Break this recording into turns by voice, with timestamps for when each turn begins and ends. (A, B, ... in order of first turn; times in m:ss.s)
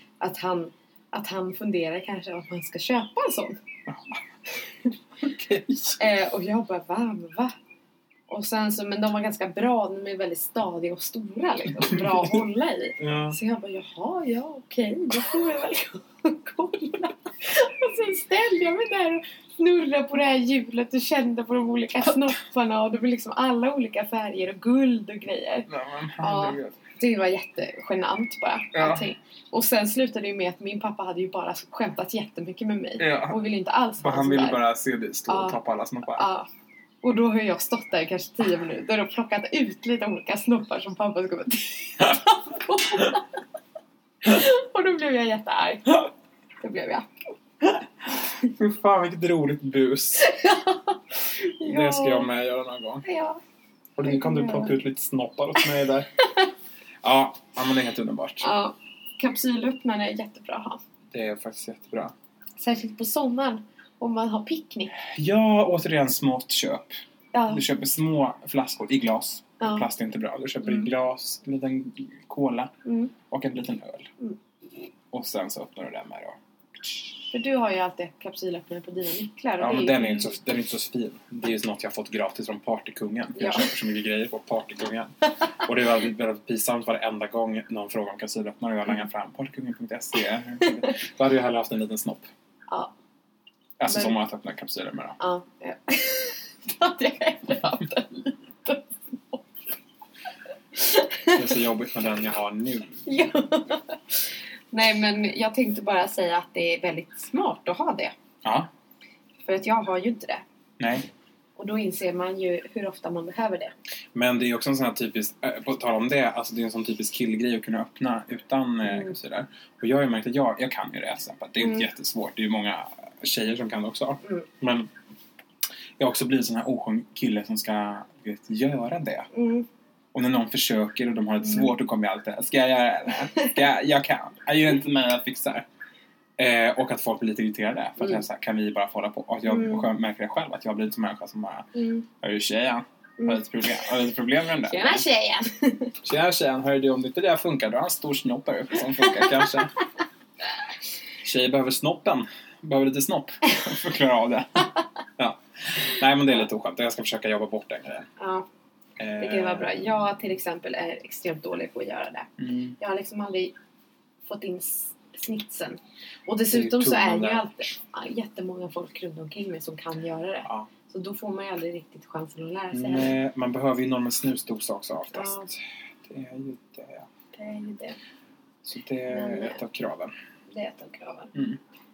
0:00.2-0:03.6 A
0:05.2-0:06.1 B
0:06.0-0:07.5 A
0:08.3-0:25.7 A
0:11.9-0:12.4 B
0:13.0-0:13.4 B
0:25.7-0:26.8 B
0:26.2-0:34.6 A
0:28.7-0:29.1 B
0:33.0-0:33.4 B
0:34.0-0:36.3 B
0:35.3-0:35.6 A
0:36.1-0:36.5 A
0:37.0-0:43.3 A
0:44.2-0:46.1 A
0:46.6-0:47.2 A
0:48.2-0:50.3 B
0:50.2-0:52.3 A
0:51.6-0:53.1 B
0:53.0-0:53.4 A
0:54.0-0:56.1 B
0:54.0-0:54.8 A
0:56.2-0:56.5 A
0:57.0-0:58.5 B
0:58.4-1:00.8 A
1:01.1-1:02.1 B
1:02.6-1:04.9 A
1:05.0-1:07.0 B
1:07.3-1:07.6 A
1:07.5-1:12.7 B
1:09.6-1:09.9 A
1:12.8-1:13.1 A
1:13.3-1:14.1 B
1:15.1-1:17.1 B
1:17.3-1:20.3 A
1:19.6-1:32.3 B
1:23.4-1:23.7 A
1:33.8-1:35.2 B
1:33.9-1:34.2 A
1:35.2-1:39.6 A
1:40.7-1:41.6 A
1:41.3-1:43.1 B
1:43.1-1:48.1 A
1:48.4-1:48.7 B
1:49.4-1:50.4 A
1:50.8-1:51.1 B
1:51.6-1:53.7 A
1:54.2-2:04.9 B
1:58.9-1:59.1 A
2:01.6-2:01.9 A
2:06.0-2:09.3 B
2:09.3-2:09.7 A
2:10.1-2:15.7 B
2:11.4-2:11.7 A
2:16.4-2:25.1 B
2:18.0-2:18.2 A
2:19.5-2:19.9 A
2:21.8-2:22.0 A
2:24.6-2:26.0 A
2:26.0-2:29.8 B
2:29.0-2:29.6 A
2:31.2-2:38.1 B
2:38.2-2:38.5 A
2:39.0-2:39.9 B
2:39.2-2:43.6 A
2:42.4-2:42.8 B
2:44.2-2:53.2 A
2:46.5-2:47.6 B
2:52.7-2:57.1 B
2:55.1-2:55.5 A
2:57.3-2:58.0 A
2:58.6-3:00.1 B
2:59.1-2:59.6 A
3:00.5-3:01.3 A
3:01.3-3:01.6 B